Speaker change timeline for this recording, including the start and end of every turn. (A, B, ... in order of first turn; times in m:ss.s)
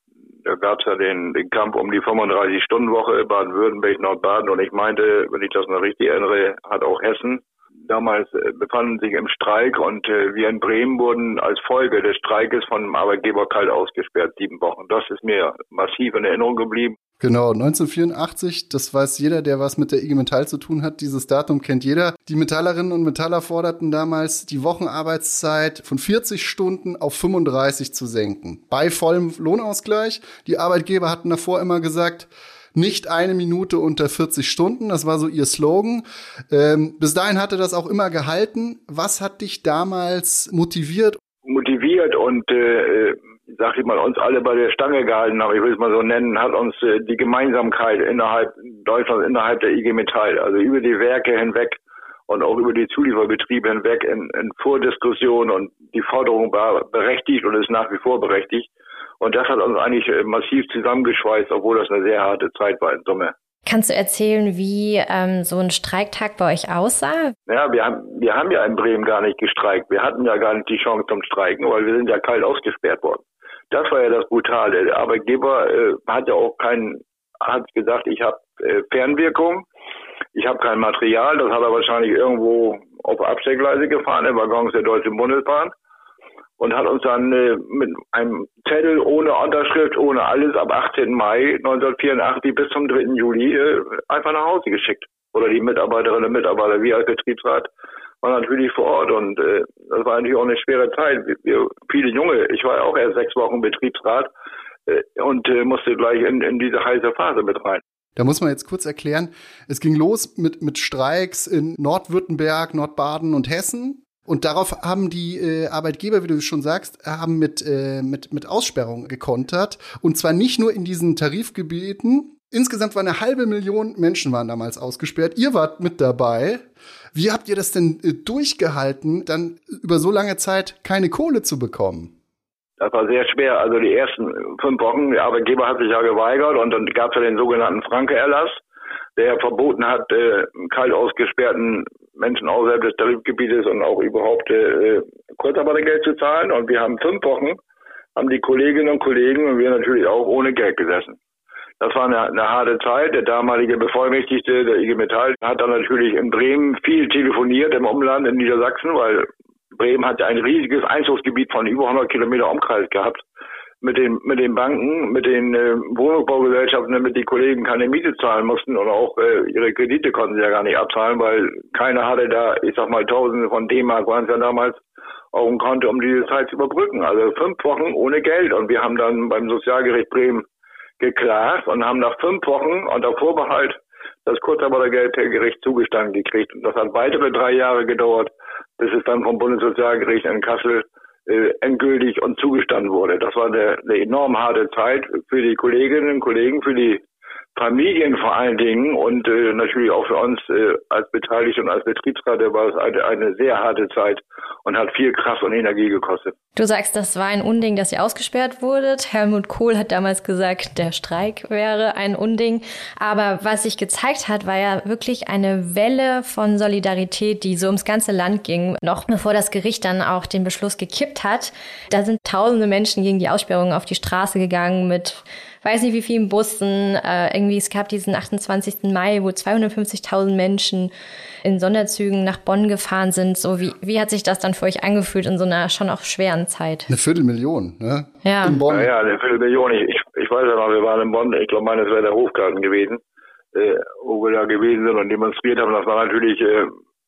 0:00.4-0:17.0 A
0:17.2-0:41.2 B
0:41.4-0:58.7 A
0:59.2-1:03.3 A
1:03.7-1:07.3 C
1:07.5-1:19.6 A
1:20.4-1:25.7 A
1:26.6-1:37.7 A
1:38.2-1:44.3 A
1:44.9-1:47.8 A
1:48.2-2:12.1 B
2:12.8-2:18.6 A
2:19.2-2:27.6 A
2:28.2-2:31.2 A
2:31.8-2:43.2 A
2:43.8-2:54.8 A
2:55.3-3:00.4 A
3:01.0-3:17.0 A
3:17.6-3:26.3 A
3:26.6-3:50.9 C
3:51.4-3:56.9 C
3:56.9-3:58.9 B
3:58.2-3:58.6 C
3:58.7-4:03.0 A
4:03.5-4:06.8 A